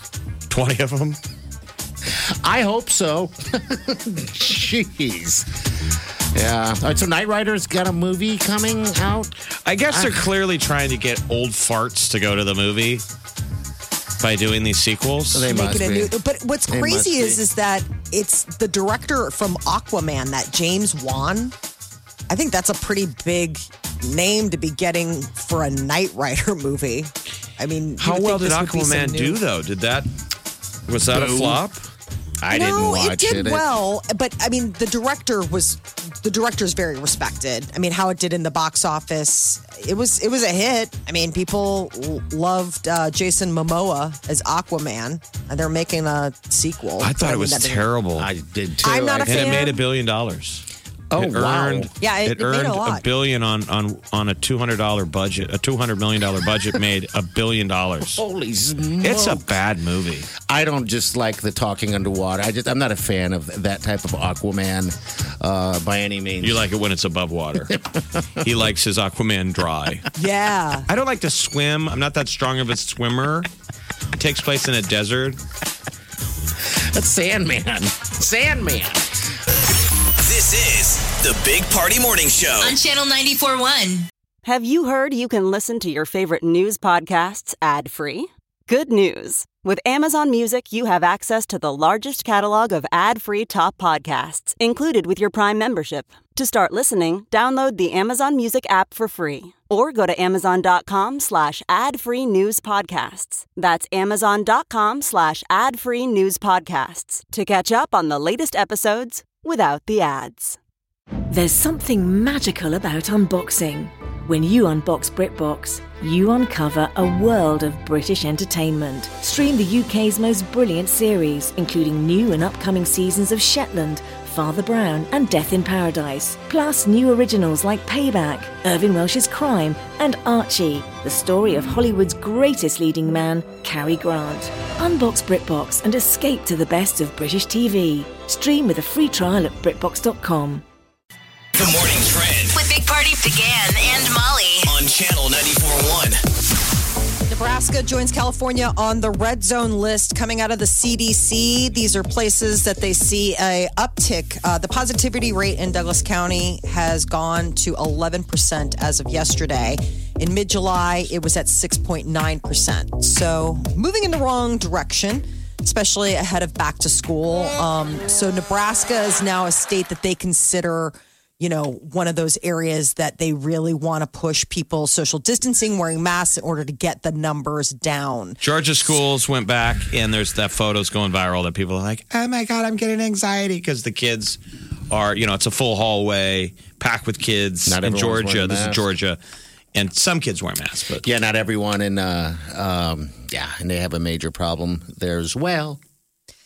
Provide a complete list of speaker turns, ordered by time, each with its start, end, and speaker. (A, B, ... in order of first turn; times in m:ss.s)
0:00.5-0:01.2 A
0:02.1-0:05.5 B
0:06.3-0:09.3 B
0:09.6-0:13.0 A
0:09.9-0:10.3 B
0:14.2-0:15.5 A
0:15.3-0:16.1 B
0:15.5-0:21.5 C
0:16.7-0:17.4 B
0:22.3-0:29.4 C
0:28.0-0:30.1 A
0:30.9-0:31.8 A
0:31.1-0:31.6 B
0:32.4-0:33.7 B
0:32.5-0:47.9 C
0:47.0-0:48.3 A
0:48.2-0:49.8 B
0:48.8-0:49.8 C
0:49.2-0:58.2 A
0:51.1-0:51.9 B
0:52.0-0:53.0 C
0:58.2-0:59.6 B
0:59.0-1:00.3 A
1:00.4-1:06.7 B
1:06.4-1:07.7 A
1:07.7-1:08.5 B
1:08.4-1:10.1 A
1:10.2-1:10.9 C
1:10.9-1:13.5 A
1:14.2-1:15.4 A
1:16.6-1:19.0 B
1:20.2-1:22.8 D
1:22.6-1:24.1 E
1:24.4-1:50.6 F
1:51.3-2:20.6 G
2:21.6-2:22.6 D
2:22.5-2:24.7 E
2:24.7-2:26.2 D
2:27.3-2:58.4 C
2:58.4-3:04.4 A
3:04.9-3:09.2 A
3:07.7-3:08.8 B
3:09.7-3:11.0 A
3:11.0-3:15.8 B